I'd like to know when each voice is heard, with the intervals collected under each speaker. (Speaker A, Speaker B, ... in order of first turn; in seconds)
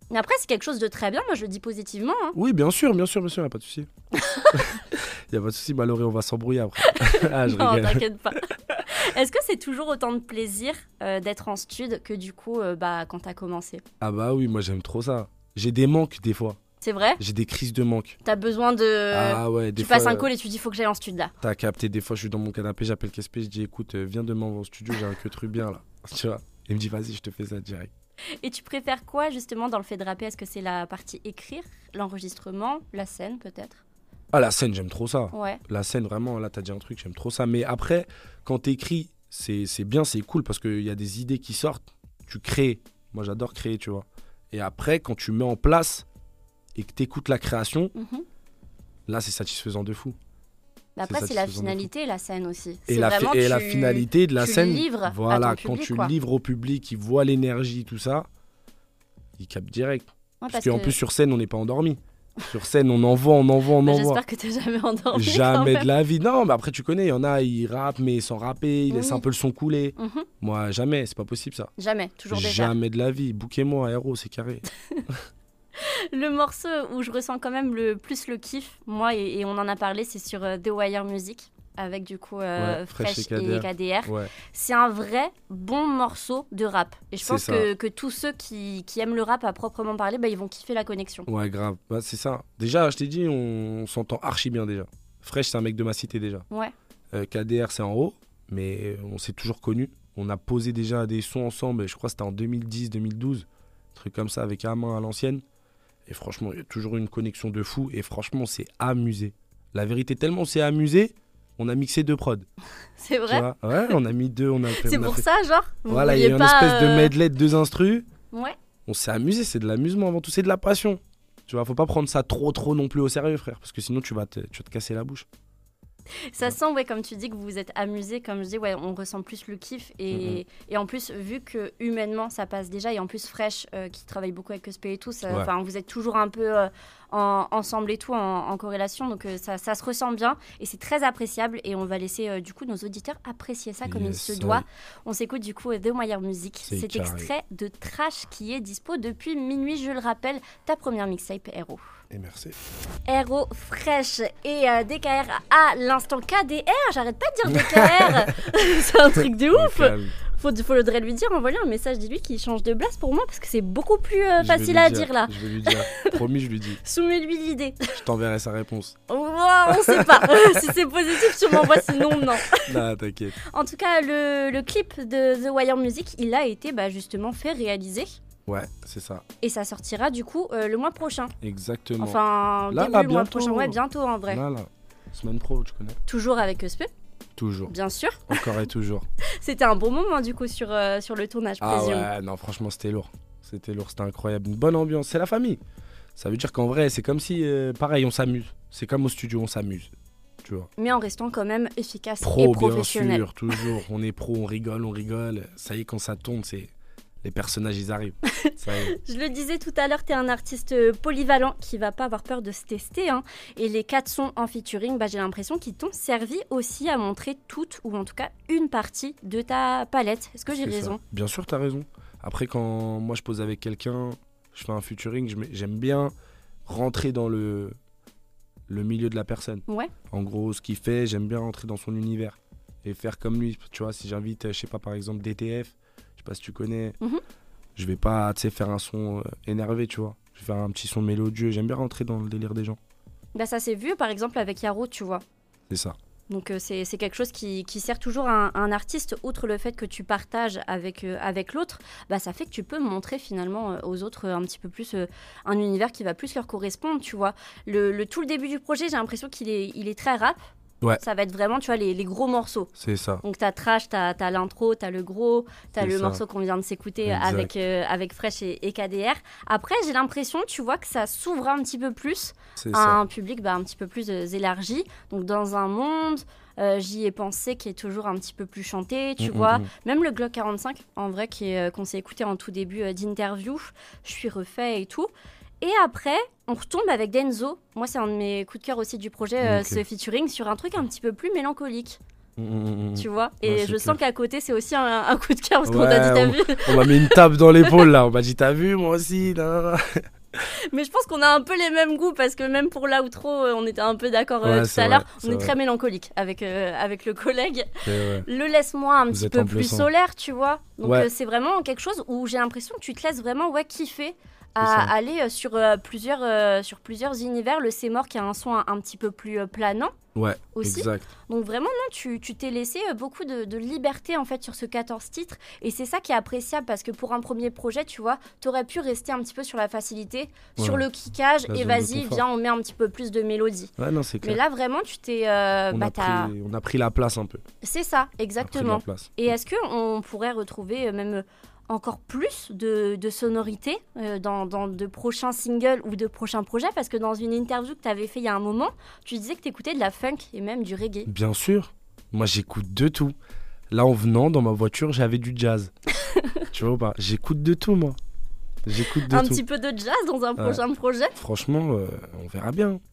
Speaker A: 0.1-2.4, 4.2-4.8, 6.8-13.8, 16.8-17.2, 18.2-21.3, 28.4-33.8, 35.3-35.6, 47.9-48.2, 51.0-56.1, 60.4-60.9, 63.8-65.9, 68.9-69.2, 70.0-70.3, 71.8-72.7, 75.8-91.3, 113.0-113.5, 114.8-117.1, 126.3-151.8, 153.1-166.2, 166.8-167.9, 169.1-172.8, 173.5-178.2, 179.4-181.3, 182.0-184.4, 186.1-186.9, 187.7-188.4, 189.4-192.1, 200.8-203.7, 208.4-221.0, 229.7-229.9, 243.3-245.2, 246.3-260.5, 261.0-262.7, 263.2-292.0, 292.9-297.8, 300.7-319.9, 320.5-333.7, 334.2-336.3, 337.6-351.1, 356.0-356.4, 359.1-361.1
Speaker B: 2.3-3.9, 4.5-8.8, 14.0-16.6, 17.2-18.2, 19.1-20.3, 21.4-27.9, 34.3-46.0, 46.7-47.9, 49.1-50.1, 51.0-51.9, 52.9-58.3, 59.4-64.2, 65.1-71.7, 72.3-75.3, 82.6-84.3, 87.2-87.7, 91.3-96.4, 97.1-105.4, 106.0-112.5, 113.3-115.2, 115.9-118.1, 118.8-125.2, 130.1-130.4, 143.8-144.6, 146.6-147.3, 152.1-152.6, 157.5-158.6, 159.5-160.2, 164.4-166.8, 167.9-169.0, 169.7-170.6, 171.2-173.4, 178.4-179.2, 181.4-186.0, 187.3-187.7, 188.3-189.1, 191.6-195.6, 196.2-199.9, 200.4-200.7, 202.2-208.9, 220.5-226.1, 226.7-227.8, 228.7-237.0, 237.8-242.8, 245.7-245.9, 262.8-263.2, 265.8-266.2, 267.0-267.5, 272.6-273.0, 279.2-279.7, 289.4-289.8, 292.4-294.0, 295.6-300.1, 304.4-305.5, 307.8-308.2, 309.1-309.9, 310.8-311.1, 314.6-314.9, 320.1-321.1, 330.6-330.8, 331.5-332.2, 333.8-334.4, 335.7-337.4, 338.4-339.1, 351.1-353.1, 353.7-355.7, 356.5-358.0, 358.6-359.4, 361.1-362.8